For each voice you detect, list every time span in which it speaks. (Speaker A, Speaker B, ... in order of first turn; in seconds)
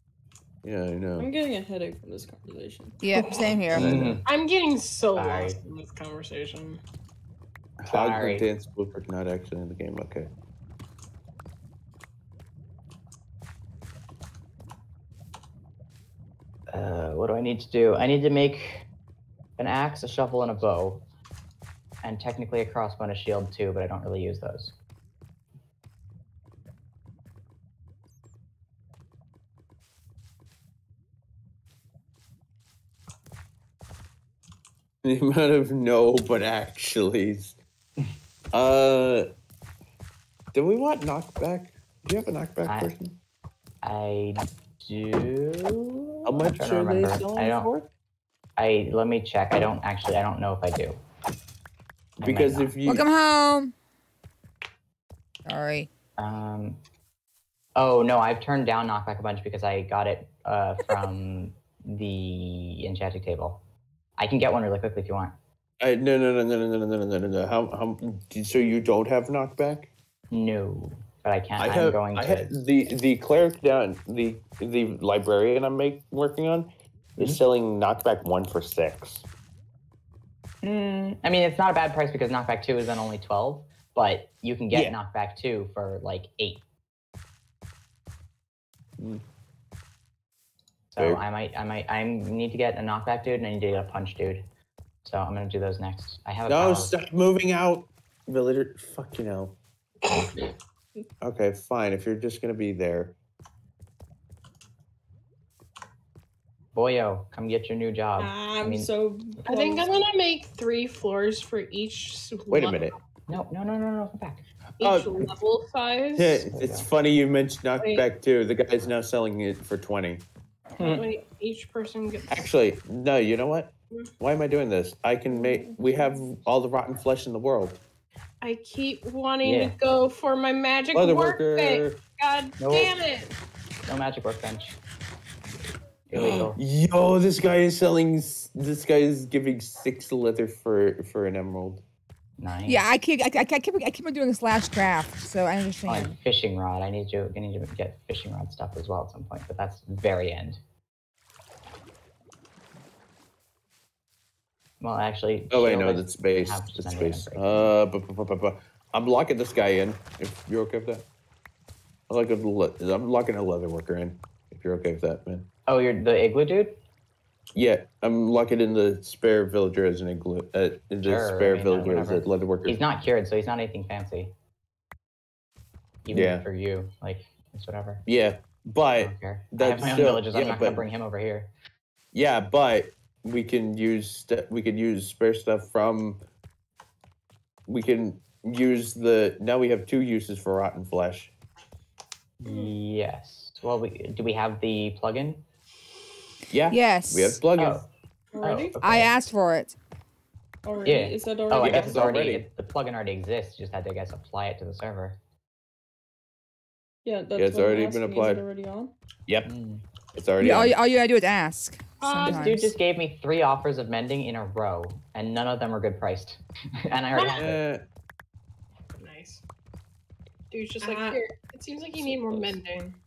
Speaker A: 0.6-1.3, 3.6-4.2, 7.8-10.3, 35.0-37.5, 38.5-39.2, 40.5-43.1, 46.2-47.9, 52.2-53.1, 65.8-69.9, 71.6-79.2, 96.5-99.5, 101.2-103.1, 112.5-112.9, 114.8-115.3, 116.2-120.2, 122.3-127.8, 130.9-132.0, 136.1-141.8, 155.5-161.0, 162.1-165.4, 167.5-172.8, 176.1-176.4, 178.1-180.8, 182.1-186.2, 187.7-191.3, 196.5-197.8, 201.6-202.4, 207.3-208.4, 210.1-210.8, 217.4-217.8
Speaker B: 1.2-3.0, 108.2-110.0, 125.3-126.2, 198.3-198.7, 200.6-202.1, 207.0-208.9, 220.8-221.2, 221.9-222.6
Speaker C: 3.0-4.1, 52.8-53.7, 55.5-55.9, 142.7-146.1, 196.7-197.4, 198.8-199.8, 210.4-212.7
Speaker D: 3.1-3.5, 4.2-6.8, 109.5-112.9, 114.8-116.4, 120.8-122.5, 128.4-133.3, 192.5-192.7, 212.0-212.5, 217.1-217.4, 218.9-219.4, 220.5-223.0
Speaker E: 3.7-4.2, 5.1-5.6, 7.9-8.5, 16.7-18.9, 19.6-21.0, 22.0-24.7, 42.6-42.9, 43.8-47.7, 48.6-51.0, 52.2-52.8, 56.2-56.8, 57.8-63.6, 64.2-65.3, 70.3-72.5, 80.6-86.6, 90.9-94.4, 95.0-96.9, 100.1-100.4, 106.7-108.9, 113.3-114.4, 116.5-116.9, 120.8-121.0, 129.4-129.7, 132.6-132.9, 133.8-134.8, 136.1-136.6, 142.4-142.8, 145.8-150.6, 154.8-157.8, 165.7-166.8, 171.0-174.3, 176.0-178.0, 179.0-181.5, 192.4-195.4, 197.6-197.9, 198.4-199.1, 200.8-205.2, 209.4-209.8, 212.2-217.6